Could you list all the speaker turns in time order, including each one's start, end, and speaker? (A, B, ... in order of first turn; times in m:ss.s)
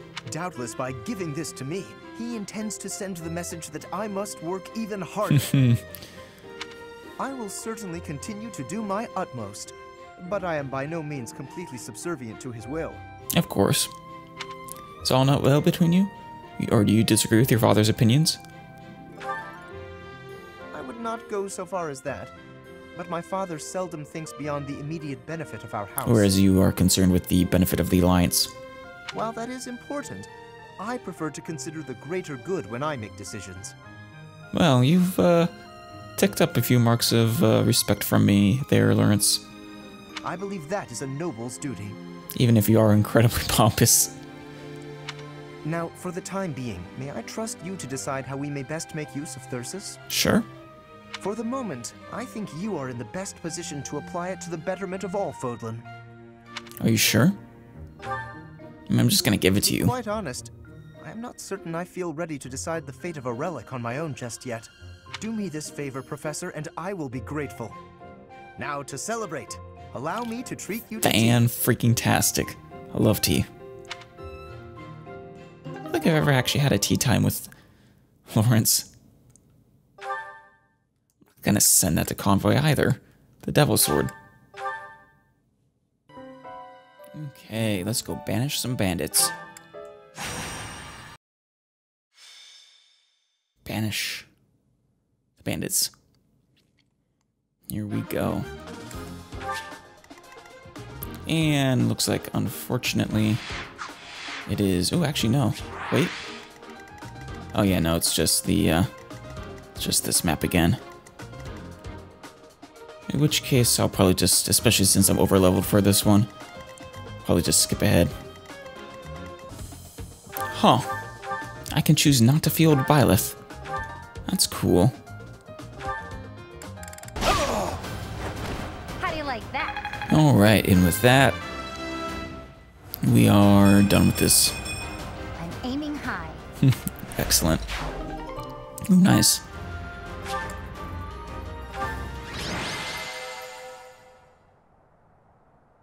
0:00.3-0:05.5 A
0:05.4-0:05.8 B
0:07.2-0:13.0 A
0:13.3-0:13.9 B
0:15.0-0:18.4 B
0:20.7-0:22.3 A
0:23.0-0:26.3 A
0:26.0-0:28.5 B
0:29.1-0:33.8 A
0:34.5-0:35.5 B
0:36.2-0:39.5 B
0:40.2-0:42.0 A
0:42.4-0:44.2 B
0:45.6-0:50.0 A
0:50.1-0:50.5 B
0:51.2-0:55.9 A
0:56.8-0:57.4 B
0:58.9-1:00.0 B
0:59.6-1:07.8 A
1:08.6-1:11.5 A
1:11.0-1:13.5 B
1:15.9-1:17.5 B
1:18.3-1:18.9 B
1:21.4-1:24.1 B
1:27.1-1:29.3 B
1:33.6-1:34.3 B
1:35.4-1:35.9 B
1:37.7-1:38.5 B
1:41.3-1:43.4 B
1:44.5-1:46.2 B
1:47.5-1:48.9 B
1:49.8-1:50.8 B
1:53.1-1:56.3 B
1:57.2-1:58.1 B
2:00.5-2:00.9 B
2:01.7-2:03.4 B
2:04.3-2:05.0 B
2:09.0-2:10.0 C
2:10.1-2:11.4 B
2:13.0-2:14.6 B
2:15.4-2:16.4 C
2:16.6-2:17.6 B
2:18.9-2:19.4 B